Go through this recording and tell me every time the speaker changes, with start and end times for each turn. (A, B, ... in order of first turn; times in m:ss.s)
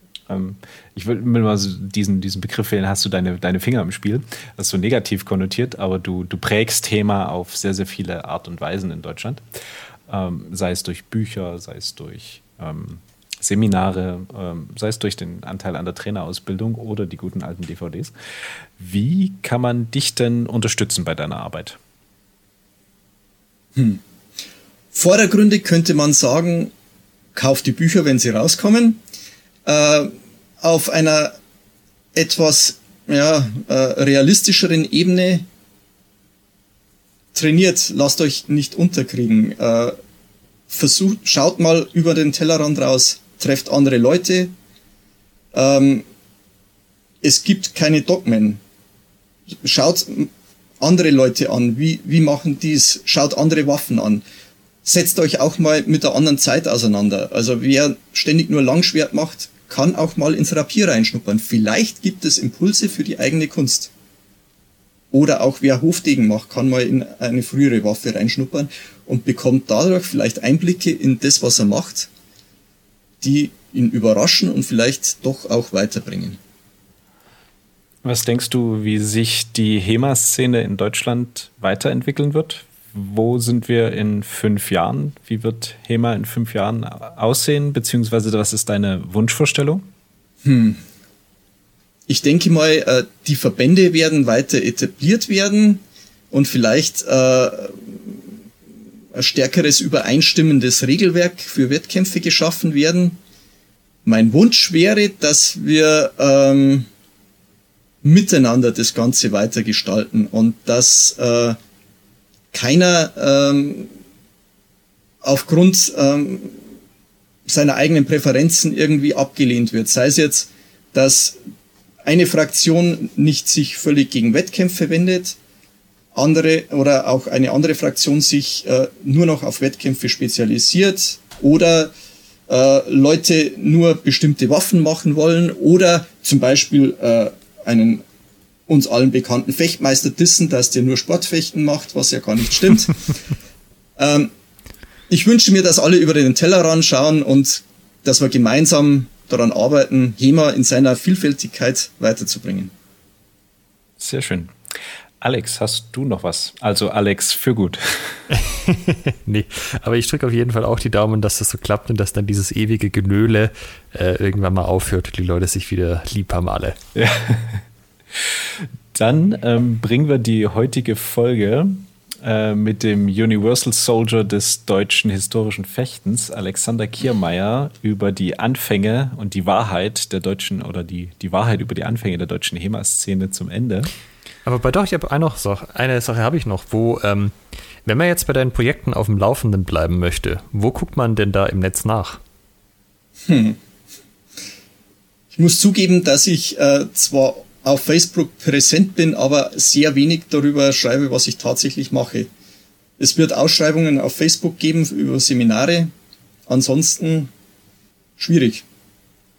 0:00.3-0:09.4 A
0:10.1-0:18.1 A
0:18.8-0:21.8 A
0:23.8-0:24.0 B
0:24.9-0:26.7 B
0:27.4-0:29.0 B
0:29.6-0:31.4 B
0:32.1-0:35.5 B
0:37.4-0:40.0 B
0:40.7-0:44.5 B
0:45.5-0:46.0 B
0:47.2-0:48.6 B
0:49.6-0:54.2 B
0:54.8-1:03.9 B
1:05.1-1:12.1 B
1:13.2-1:16.4 B
1:18.0-1:29.8 A
1:30.4-1:30.8 B
1:32.1-1:38.2 B
1:39.1-1:43.2 B
1:44.0-1:46.9 B
1:48.0-1:51.6 B
1:52.5-1:53.9 B
1:55.2-1:56.6 B
1:57.5-2:01.4 B
2:02.0-2:05.4 B
2:06.1-2:11.9 B
2:12.5-2:18.0 B
2:18.7-2:23.1 B
2:24.0-2:24.3 B
2:25.1-2:32.7 B
2:34.0-2:34.5 A
2:35.2-2:38.2 A
2:38.3-2:46.8 C
2:47.0-2:47.6 A
2:48.3-3:03.9 A
3:04.5-3:07.3 C
3:07.8-3:12.2 C
3:13.3-3:13.6 B
3:15.3-3:22.3 B
3:23.0-3:25.9 B
3:26.5-3:27.3 B
3:28.2-3:28.6 B